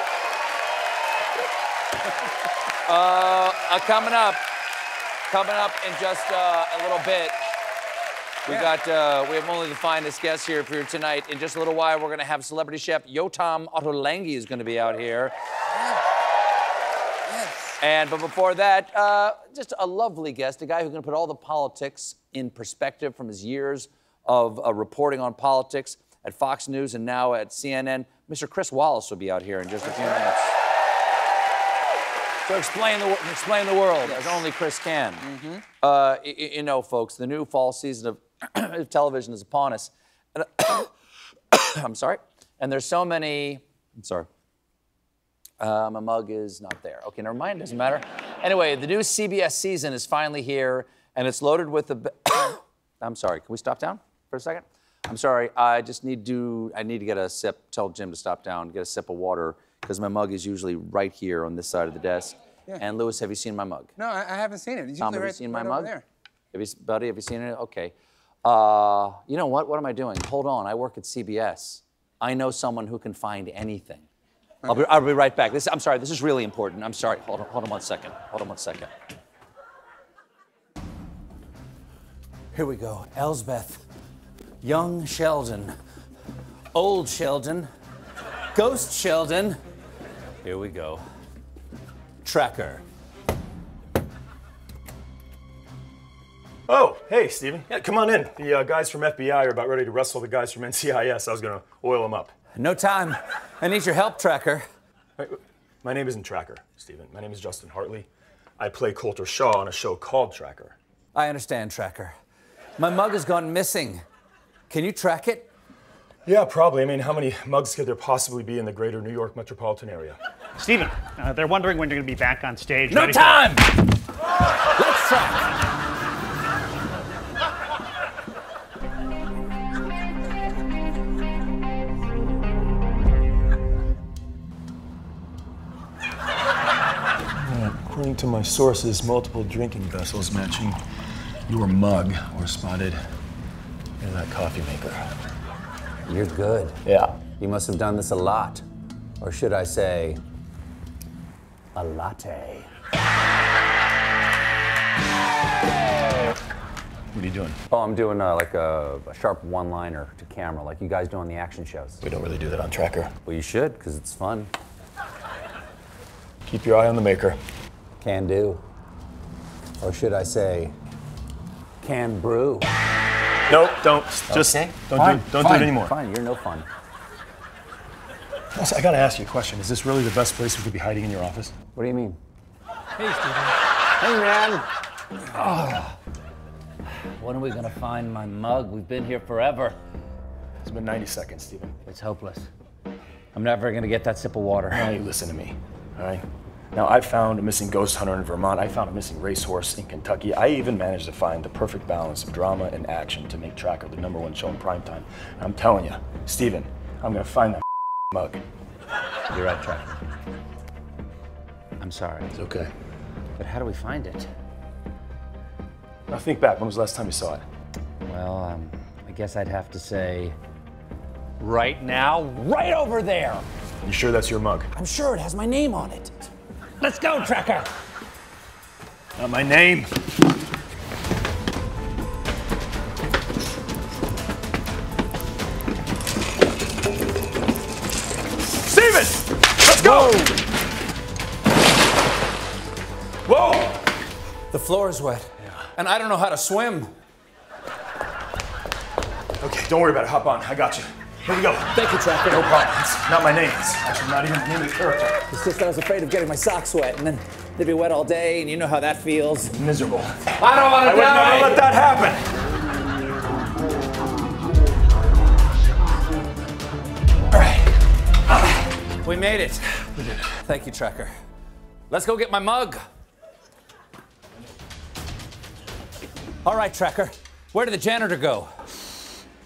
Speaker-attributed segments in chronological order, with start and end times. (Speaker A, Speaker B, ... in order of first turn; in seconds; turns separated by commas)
Speaker A: 2.9-4.4, Speaker A: 5.3-7.4, Speaker A: 8.4-15.3, Speaker B: 17.3-17.8, Speaker A: 17.8-30.6, Speaker B: 29.9-30.2, Speaker A: 32.5-40.9, Speaker B: 35.2-35.6, Speaker A: 41.5-44.3, Speaker A: 45.6-63.9, Speaker B: 64.0-66.0, Speaker A: 65.0-65.9, Speaker A: 66.5-74.1, Speaker A: 74.7-78.9, Speaker A: 82.5-83.9, Speaker A: 84.6-85.7, Speaker A: 86.7-87.7, Speaker A: 88.5-89.6, Speaker A: 90.4-91.0, Speaker A: 92.2-92.8, Speaker C: 96.7-102.3, Speaker A: 102.6-104.7, Speaker C: 105.2-108.1, Speaker C: 108.6-110.8, Speaker A: 111.1-112.2, Speaker A: 112.8-114.0, Speaker A: 114.7-115.5, Speaker C: 116.2-120.2, Speaker D: 120.6-123.4, Speaker A: 122.9-124.0, Speaker A: 124.7-125.5, Speaker C: 137.4-140.8, Speaker C: 141.5-143.0, Speaker C: 144.0-145.1, Speaker A: 146.1-146.8, Speaker C: 146.8-147.2, Speaker A: 147.4-148.6, Speaker A: 149.2-150.2, Speaker A: 151.8-152.7, Speaker C: 157.1-157.6, Speaker A: 157.7-162.0, Speaker C: 162.0-163.1, Speaker A: 163.3-164.5, Speaker C: 166.5-167.4, Speaker A: 168.0-168.6, Speaker A: 169.8-170.7, Speaker A: 171.8-172.7, Speaker C: 173.5-175.9, Speaker A: 174.3-176.7, Speaker C: 178.6-181.6, Speaker A: 181.8-182.2, Speaker A: 183.9-184.7, Speaker A: 185.3-186.0, Speaker A: 187.2-189.8, Speaker C: 190.6-191.8, Speaker A: 191.8-192.5, Speaker A: 193.3-194.9, Speaker C: 194.7-208.4, Speaker A: 209.3-209.9, Speaker A: 211.8-212.4, Speaker C: 212.4-212.7, Speaker A: 213.4-214.3, Speaker C: 216.1-217.4, Speaker A: 218.1-220.4, Speaker A: 221.4-223.4, Speaker C: 223.8-224.7, Speaker A: 224.8-227.7, Speaker C: 229.2-229.9, Speaker C: 238.6-240.3, Speaker A: 239.8-240.3, Speaker C: 243.3-243.8, Speaker A: 244.5-246.9, Speaker C: 249.4-255.2, Speaker A: 251.7-252.6, Speaker A: 255.3-259.6, Speaker C: 259.5-262.3, Speaker A: 260.4-261.6, Speaker A: 269.0-271.1, Speaker A: 271.9-272.8, Speaker A: 276.4-278.5